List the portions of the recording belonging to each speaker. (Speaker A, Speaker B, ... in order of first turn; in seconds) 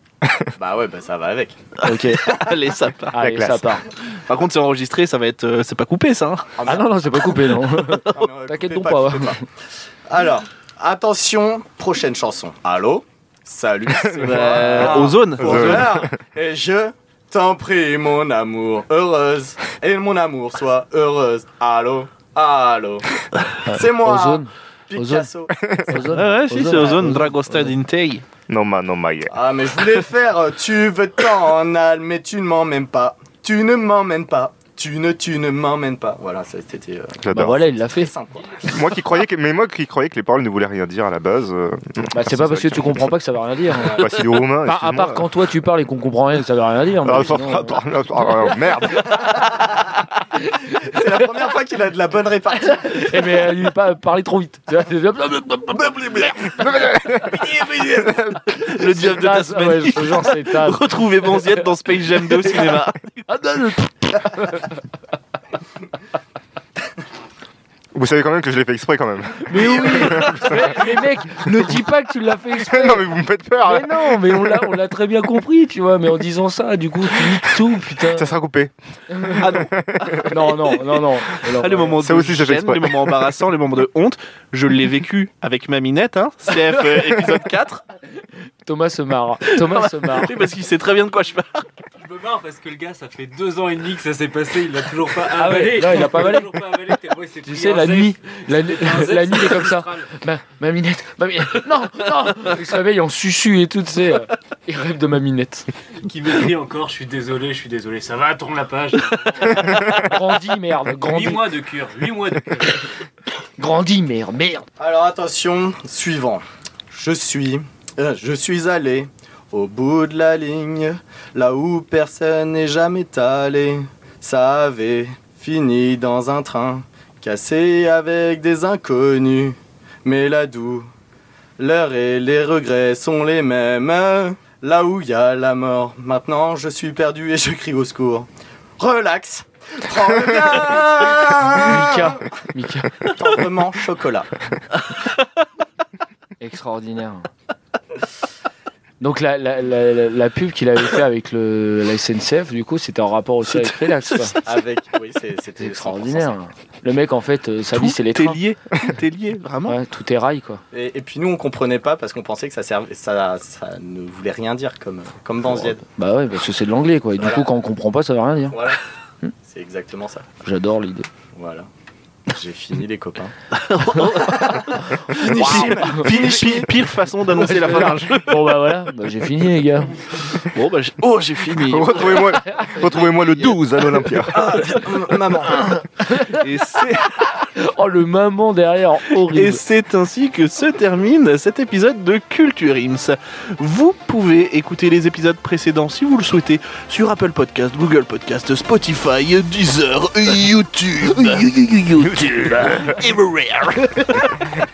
Speaker A: 0.6-1.6, 6.6-6.9, 8.1-9.4, 10.1-26.1, 29.3-38.7, 43.8-44.0, 50.8-53.2, 114.8-130.9, 131.6-142.2, 143.1-144.3, 154.4-156.3, 160.7-165.8, 167.2-167.4, 168.5-168.8, 169.4-170.3, 171.3-171.7, 172.3-173.3, 174.0-176.7, 184.3-185.8
Speaker B: 1.8-3.2, 4.1-6.7, 14.2-16.0, 26.1-28.2, 58.5-63.2, 79.4-80.8, 81.5-87.8, 89.5-91.7, 153.5-154.5, 157.7-159.8, 173.5-178.4, 180.3-182.3, 186.2-187.3, 189.1-204.3
Speaker C: 1.8-2.4, 3.1-3.8, 6.7-9.4, 23.6-25.3, 25.9-27.7, 37.3-38.1, 42.1-44.0, 44.6-47.8, 50.8-51.1, 52.7-56.9, 57.6-58.1, 58.7-61.6, 62.4-62.7, 63.3-64.8, 69.5-73.1, 73.6-78.3, 79.1-79.4, 80.3-82.0, 88.6-90.4, 95.3-96.7, 97.4-105.7, 109.5-111.5, 113.6-114.7, 141.5-143.3, 146.4-147.3, 149.0-154.4, 155.6-158.4, 159.7-160.6, 165.9-168.6, 170.4-171.1, 175.3-176.0, 177.3-180.4, 182.5-183.6, 186.1-186.4, 187.1-189.6, 202.4-203.0
Speaker D: 3.2-3.7, 15.4-16.1, 25.6-25.9, 28.5-29.3, 37.2-37.6, 38.7-43.1, 43.8-45.2, 47.0-49.1, 56.4-58.3, 67.9-70.9, 72.5-74.6, 78.1-80.4, 82.0-83.2, 181.7-184.5
Speaker E: 92.0-100.1, 106.0-109.7, 111.1-112.9